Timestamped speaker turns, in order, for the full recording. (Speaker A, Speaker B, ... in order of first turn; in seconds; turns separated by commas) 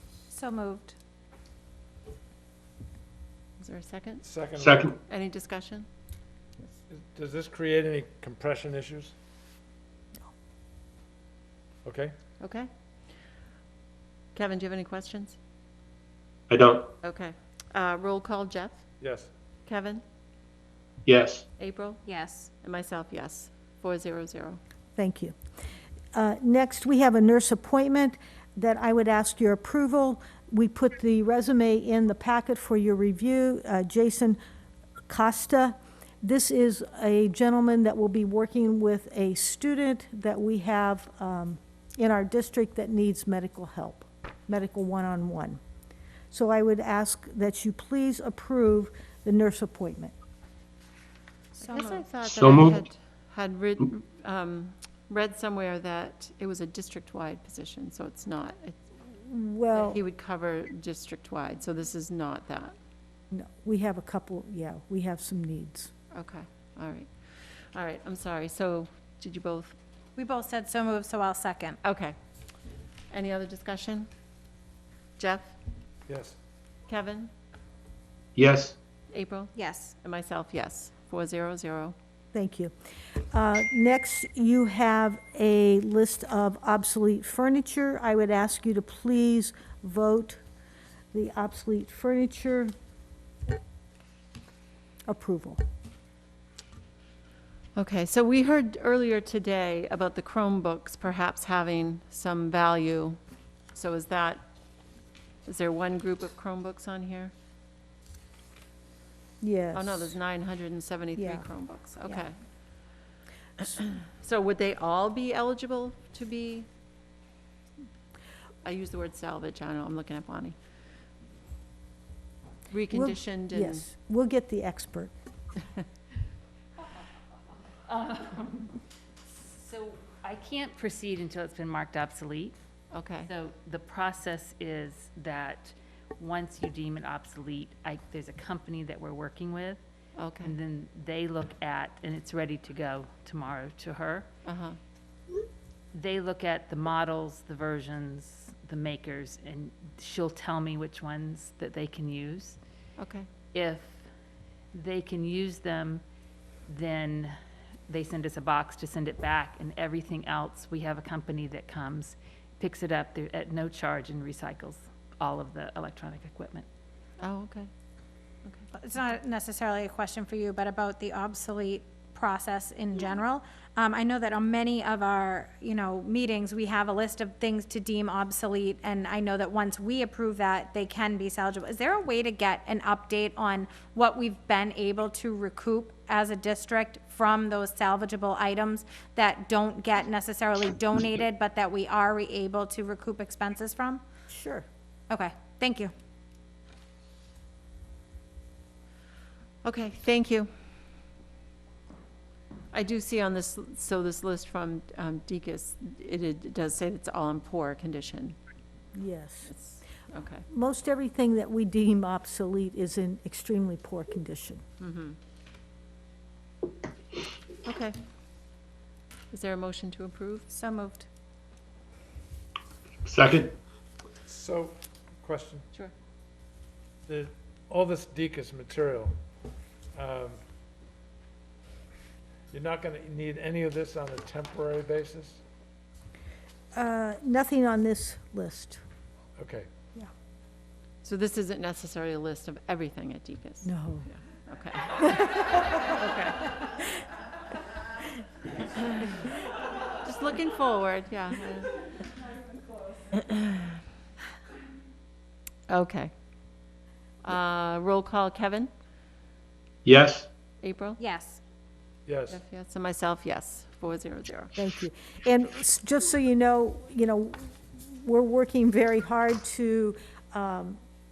Speaker A: 0.3-0.9, Speaker B: 3.6-4.4, Speaker C: 4.2-4.9, Speaker D: 4.6-4.9, Speaker B: 5.0-5.9, Speaker C: 6.9-9.1, Speaker C: 11.8-12.1, Speaker B: 12.4-12.7, Speaker B: 14.3-15.4, Speaker D: 16.5-16.9, Speaker B: 17.0-18.8, Speaker C: 19.0-19.3, Speaker B: 19.6-20.0, Speaker D: 21.1-21.4, Speaker B: 21.6-22.0, Speaker A: 22.1-22.5, Speaker B: 22.6-24.6, Speaker E: 24.9-25.4, Speaker E: 26.1-34.4, Speaker E: 35.1-45.6, Speaker E: 46.3-50.1, Speaker B: 51.6-59.0, Speaker A: 51.6-52.0, Speaker D: 52.2-52.8, Speaker E: 59.2-60.0, Speaker B: 59.7-62.8, Speaker E: 63.3-65.9, Speaker B: 66.1-69.8, Speaker A: 70.2-71.8, Speaker B: 71.8-72.2, Speaker B: 73.1-74.1, Speaker B: 75.2-75.5, Speaker C: 76.1-76.4, Speaker B: 76.9-77.3, Speaker D: 78.3-78.8, Speaker B: 79.1-81.9, Speaker A: 79.6-79.9, Speaker E: 82.3-82.7, Speaker E: 83.3-90.4, Speaker E: 91.1-92.7, Speaker E: 95.1-95.6, Speaker B: 97.8-103.2, Speaker B: 103.7-104.5, Speaker B: 105.5-107.3, Speaker E: 109.4-110.1, Speaker B: 109.7-112.4, Speaker E: 111.2-111.4, Speaker B: 113.6-116.7, Speaker B: 118.6-120.5, Speaker B: 122.7-123.9, Speaker E: 122.9-125.1, Speaker F: 127.9-128.8, Speaker F: 129.4-132.6, Speaker B: 132.9-133.3, Speaker F: 133.3-139.8, Speaker B: 140.2-140.5, Speaker F: 140.4-144.3, Speaker B: 144.4-144.8, Speaker F: 145.9-152.6, Speaker B: 153.0-153.3, Speaker F: 153.5-154.0, Speaker F: 154.7-156.0, Speaker F: 156.7-157.3, Speaker F: 157.9-166.7, Speaker B: 167.2-167.7, Speaker A: 168.8-194.0, Speaker E: 194.3-194.7, Speaker A: 195.1-195.9, Speaker B: 199.6-200.5, Speaker B: 202.7-208.4, Speaker E: 208.9-209.5, Speaker B: 209.4-210.5, Speaker E: 210.5-214.6, Speaker B: 214.8-215.2, Speaker B: 217.6-218.0, Speaker B: 219.3-220.5, Speaker A: 220.5-221.1, Speaker D: 223.1-223.5, Speaker C: 224.3-225.7, Speaker C: 227.1-229.1, Speaker C: 229.9-230.4, Speaker C: 232.5-235.4, Speaker E: 236.7-238.8, Speaker C: 239.4-239.7, Speaker B: 241.0-246.5, Speaker E: 243.6-244.1, Speaker B: 248.7-249.2, Speaker B: 250.0-251.9, Speaker B: 253.1-253.8, Speaker B: 255.7-256.1, Speaker B: 257.2-258.7, Speaker D: 259.8-260.3, Speaker B: 260.6-261.0, Speaker A: 261.0-261.4, Speaker C: 262.1-262.4, Speaker B: 262.3-264.5, Speaker E: 264.6-270.8